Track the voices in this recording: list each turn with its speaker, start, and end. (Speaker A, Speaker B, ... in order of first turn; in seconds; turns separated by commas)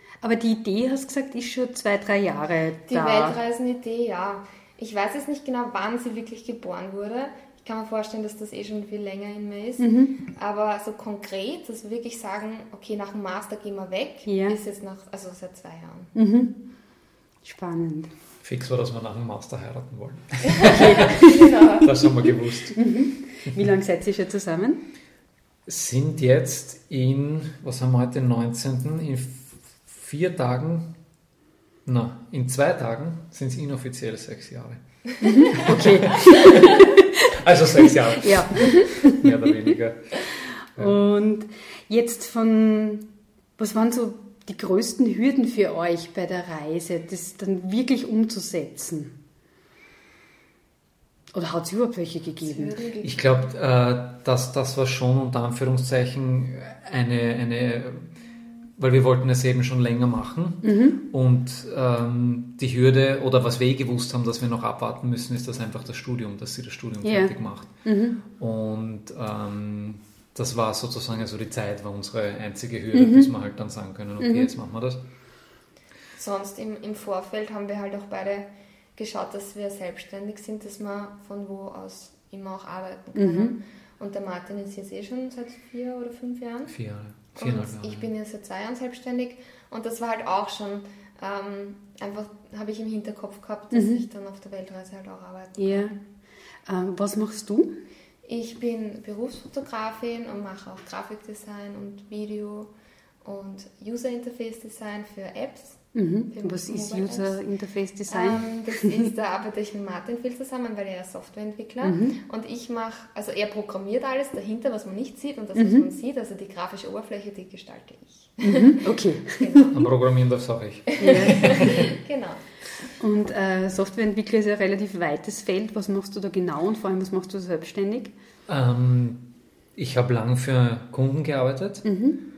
Speaker A: 0.2-3.4, Speaker B: 2.9-16.1, Speaker A: 9.8-10.2, Speaker A: 14.2-14.6, Speaker A: 16.1-16.5, Speaker A: 17.4-18.1, Speaker C: 18.4-21.2, Speaker A: 20.6-21.4, Speaker B: 21.2-22.0, Speaker C: 21.8-22.7, Speaker A: 22.7-24.8, Speaker C: 25.7-30.9, Speaker C: 31.9-34.8, Speaker A: 35.2-37.0, Speaker C: 35.5-40.2, Speaker A: 37.9-39.3, Speaker C: 40.8-41.0, Speaker A: 40.8-49.1, Speaker A: 51.3-52.8, Speaker B: 52.4-53.5, Speaker C: 53.0-58.1, Speaker C: 58.8-67.8, Speaker A: 60.6-61.0, Speaker A: 67.0-68.2, Speaker C: 68.3-75.0, Speaker A: 72.9-73.3, Speaker A: 74.2-74.5, Speaker B: 76.2-86.7, Speaker A: 83.1-83.5, Speaker C: 86.7-88.1, Speaker B: 87.3-96.0, Speaker A: 93.7-94.0, Speaker A: 95.6-96.0, Speaker A: 96.7-97.8, Speaker B: 98.2-102.7, Speaker B: 103.2-107.4, Speaker A: 105.9-109.1, Speaker B: 108.1-118.7, Speaker A: 111.8-112.2, Speaker A: 115.5-115.8, Speaker A: 118.4-119.6, Speaker B: 119.4-119.9, Speaker C: 119.7-121.9, Speaker B: 121.0-122.4, Speaker A: 121.0-121.7, Speaker A: 123.0-128.1, Speaker C: 128.5-131.8, Speaker A: 131.8-132.2